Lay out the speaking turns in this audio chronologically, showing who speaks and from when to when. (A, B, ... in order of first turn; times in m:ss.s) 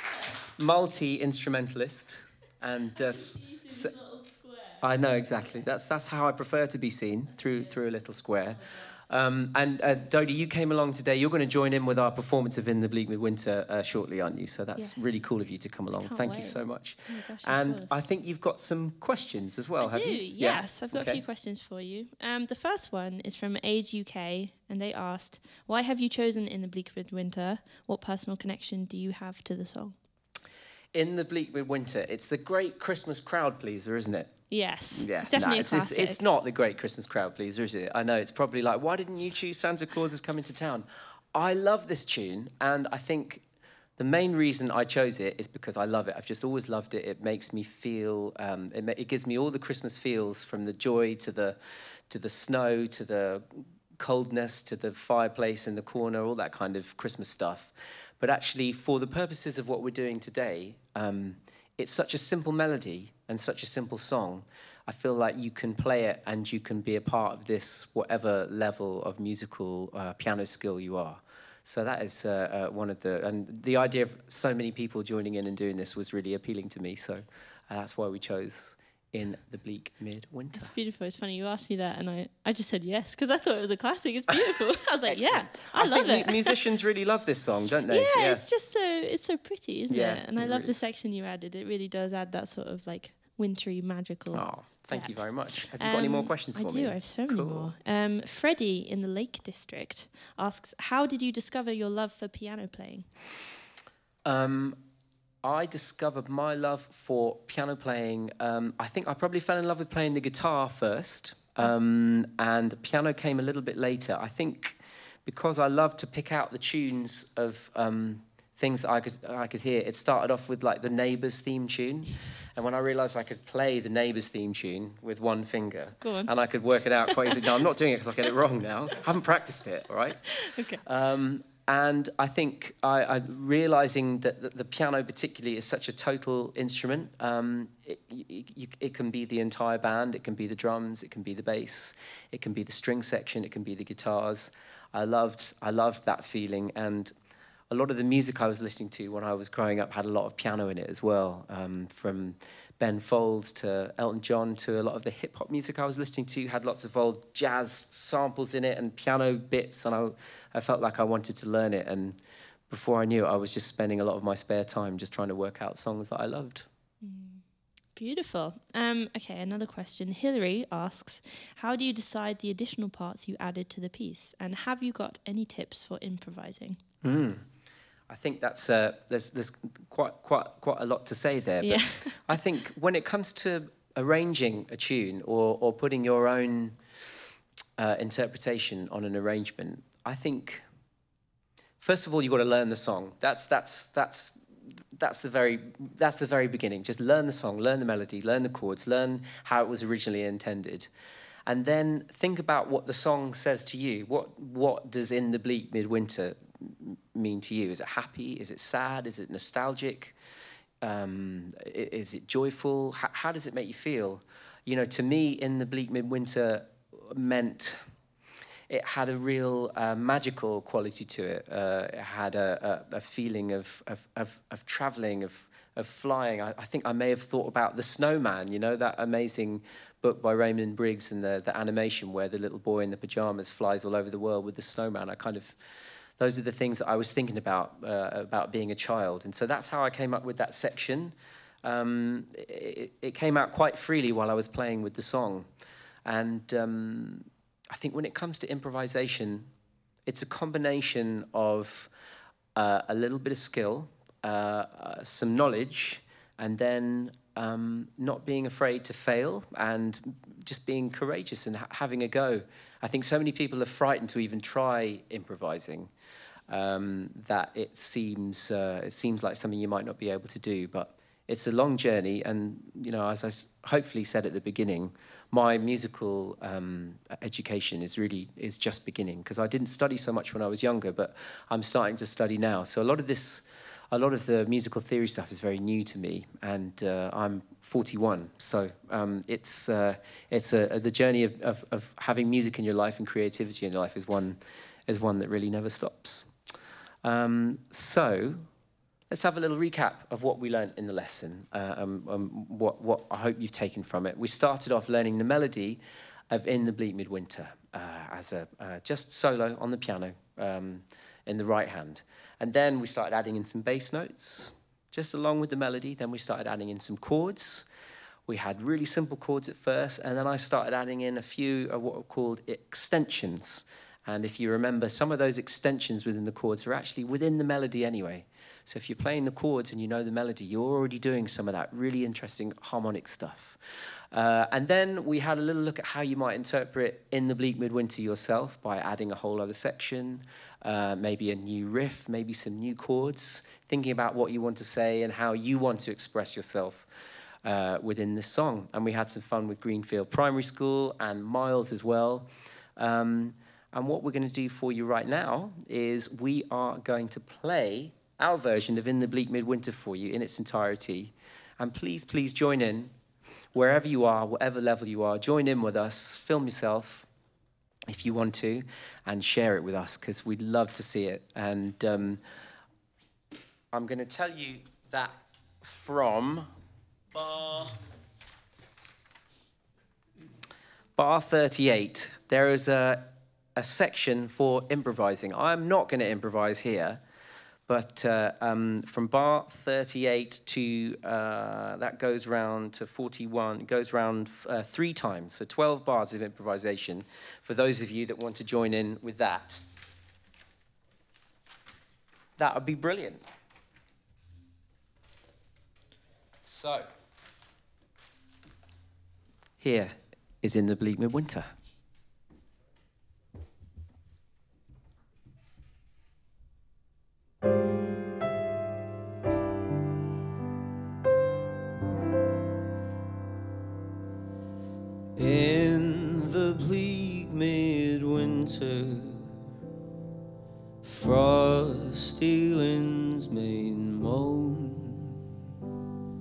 0:00.6-0:03.9 A
0:03.8-0:04.8 B
0:04.8-0:21.2 A
0:14.8-0:15.2 B
0:16.0-0:17.9 B
0:19.8-0:30.0 B
0:30.9-0:34.4 A
0:34.5-0:36.2 B
0:34.9-0:43.4 A
0:44.0-0:51.6 A
0:52.1-1:20.7 A
1:20.5-1:26.6 B
1:25.1-1:28.4 A
1:27.9-1:43.1 B
1:29.9-1:30.8 A
1:34.3-1:37.7 A
1:44.2-1:44.8 A
1:45.4-2:27.1 A
2:06.0-2:06.3 B
2:07.1-2:07.5 B
2:10.4-2:10.8 B
2:27.7-2:42.2 A
2:42.7-2:46.6 A
2:47.0-2:56.8 B
2:57.0-2:57.4 A
2:58.1-3:06.8 A
3:01.6-3:02.2 B
3:07.8-3:10.6 A
3:11.8-3:14.4 A
3:14.9-3:20.9 A
3:21.5-3:30.1 A
3:30.8-3:37.8 A
3:38.7-3:55.6 A
3:56.2-4:05.5 A
4:06.0-4:09.5 A
4:10.1-4:11.9 A
4:12.6-4:25.9 A
4:26.5-4:56.3 A
4:57.0-4:58.4 A
4:59.1-5:17.6 A
5:18.3-5:33.6 A
5:34.1-5:46.9 A
5:47.4-6:02.9 A
6:03.5-6:07.1 A
6:07.9-6:12.2 A
6:13.7-6:16.5 A
6:17.1-6:17.8 A
6:21.0-6:27.0 A
6:27.7-6:39.6 A
6:42.4-6:43.2 A
6:46.4-6:46.9 A
6:49.6-6:51.5 A
7:05.2-7:09.3 C
7:10.8-7:15.2 C